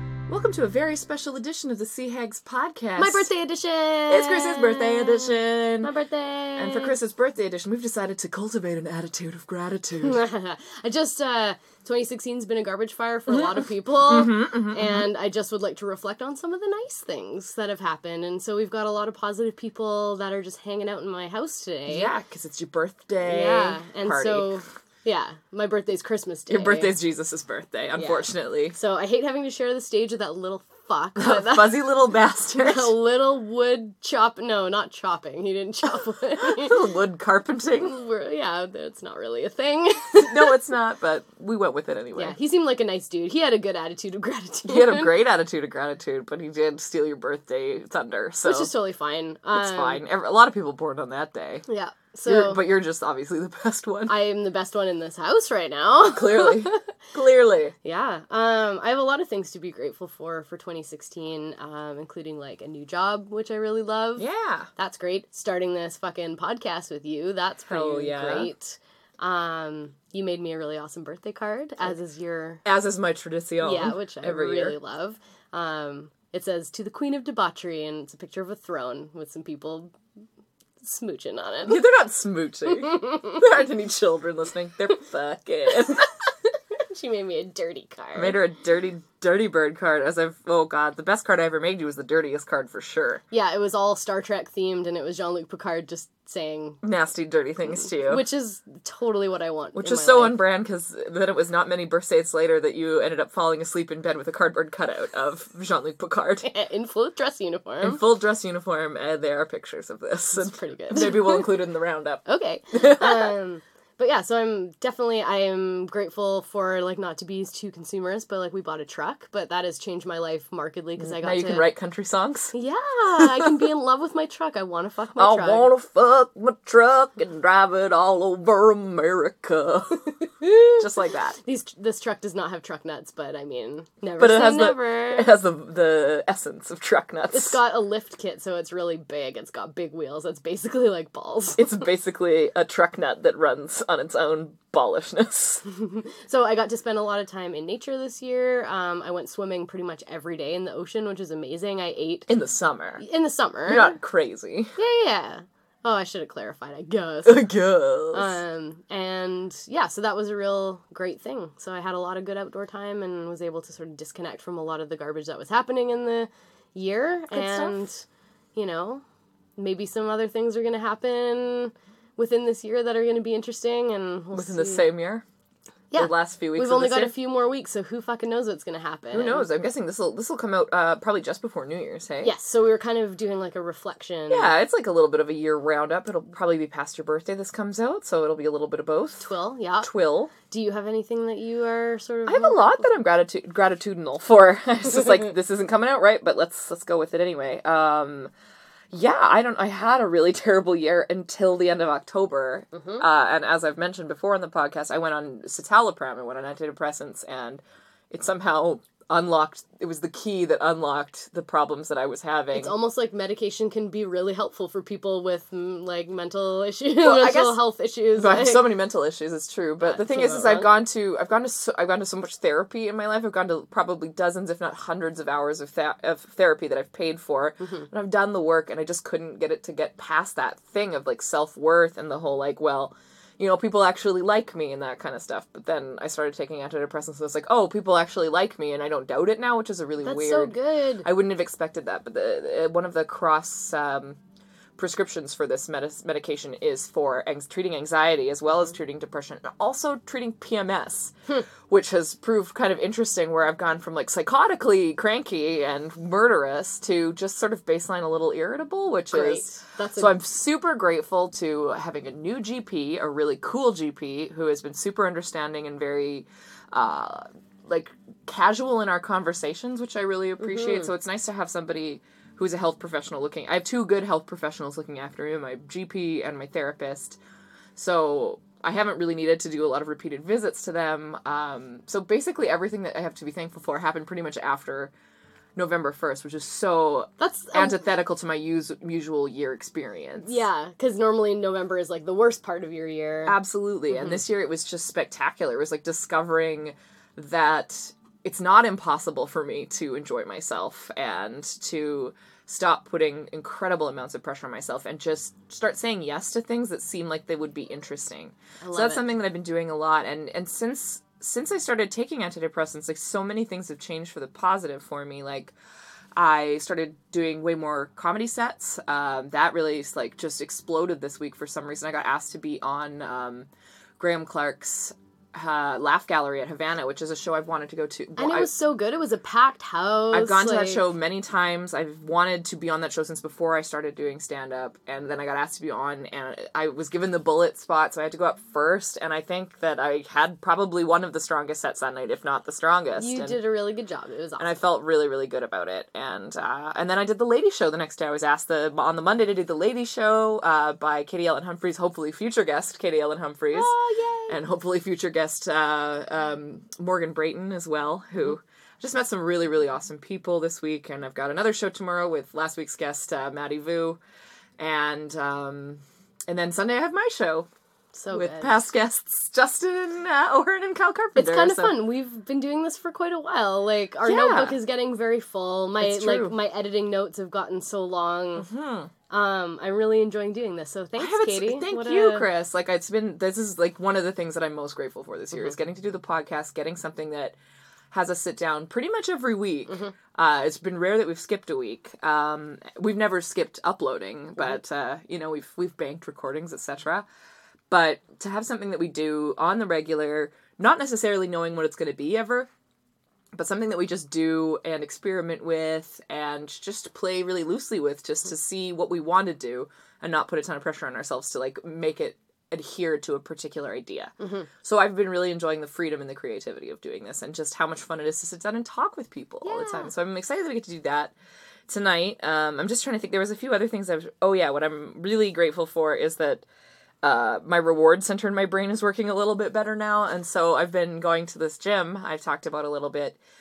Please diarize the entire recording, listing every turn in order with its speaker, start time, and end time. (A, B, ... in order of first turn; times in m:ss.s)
0:00.3-0:03.3 A
0:03.0-0:07.0 B
0:04.1-0:05.9 A
0:06.6-0:10.2 A
0:10.0-0:22.1 B
0:13.3-0:15.1 A
0:21.9-0:24.6 A
0:23.2-0:27.0 B
0:26.5-0:28.8 A
0:27.9-0:31.9 B
0:31.2-0:32.9 A
0:32.6-0:36.8 B
0:36.4-0:38.0 A
0:37.8-0:40.5 B
0:40.2-0:42.4 A
0:42.1-0:45.1 B
0:44.7-0:48.7 A
0:48.4-0:50.0 B
0:49.5-0:51.6 A
0:51.7-0:52.6 B
0:52.2-0:54.2 A
0:54.1-0:56.8 B
0:56.0-0:57.7 A
0:57.8-1:04.2 B
1:04.2-1:04.7 A
1:04.8-1:12.6 B
1:07.7-1:08.5 A
1:12.6-1:14.8 A
1:13.6-1:19.9 B
1:20.8-1:21.8 B
1:21.6-1:26.1 A
1:22.9-1:23.4 B
1:26.9-1:28.4 B
1:28.1-1:33.2 A
1:33.3-1:36.8 B
1:36.8-1:38.2 A
1:37.7-1:40.4 B
1:39.7-1:46.5 A
1:46.4-1:48.0 B
1:47.8-1:53.3 A
1:50.3-1:51.5 B
1:52.2-2:01.7 B
2:01.0-2:02.5 A
2:02.5-2:05.7 B
2:03.2-2:03.5 A
2:05.2-2:10.0 A
2:10.3-2:10.8 B
2:10.8-2:11.4 A
2:11.4-2:15.3 B
2:14.2-2:17.6 A
2:17.3-2:21.7 B
2:21.6-2:25.6 A
2:25.7-2:32.3 B
2:32.3-2:33.0 A
2:33.0-2:34.0 B
2:33.6-2:34.7 A
2:34.8-2:37.5 B
2:37.2-2:38.4 A
2:38.1-2:48.0 B
2:47.3-2:47.8 A
2:48.6-2:49.0 B
2:49.6-2:54.9 B
2:54.3-2:55.2 A
2:55.9-2:59.4 B
2:55.9-2:57.2 A
2:59.1-3:02.3 A
3:02.2-3:04.5 B
3:04.3-3:09.3 A
3:09.2-3:09.9 B
3:09.8-3:10.3 A
3:10.5-3:12.9 B
3:12.2-3:18.3 A
3:18.9-3:32.8 A
3:22.7-3:23.0 B
3:32.5-3:38.8 B
3:37.0-4:04.2 A
3:39.8-3:40.7 B
3:47.6-3:47.9 B
4:00.0-4:01.1 B
4:04.8-4:11.1 A
4:11.7-4:37.2 A
4:19.1-4:20.2 B
4:30.4-4:30.9 B
4:37.8-4:44.9 A
4:45.6-4:50.4 A
4:47.2-4:47.8 B
4:50.2-4:53.4 B
4:53.2-5:15.5 A
4:53.9-4:54.2 B
5:08.6-5:09.1 B
5:16.2-5:23.5 A
5:24.0-5:28.5 A
5:28.2-5:30.8 B
5:30.1-5:43.4 A
5:43.0-5:44.5 B
5:44.4-5:53.7 A
5:53.5-5:54.4 B
5:54.3-6:04.0 A
6:04.6-6:07.5 A
6:07.9-6:08.5 B
6:08.1-6:11.8 A
6:11.1-6:18.5 B
6:14.0-6:14.6 A
6:15.8-6:16.4 A
6:18.4-6:18.9 A
6:19.1-6:22.3 B
6:21.0-6:27.4 A
6:27.9-6:37.0 A
6:29.7-6:29.9 B
6:37.7-6:42.5 A
6:43.3-7:01.1 A
6:54.2-6:54.5 B
6:59.4-6:59.9 B
7:01.7-7:06.4 A
7:07.0-7:13.2 A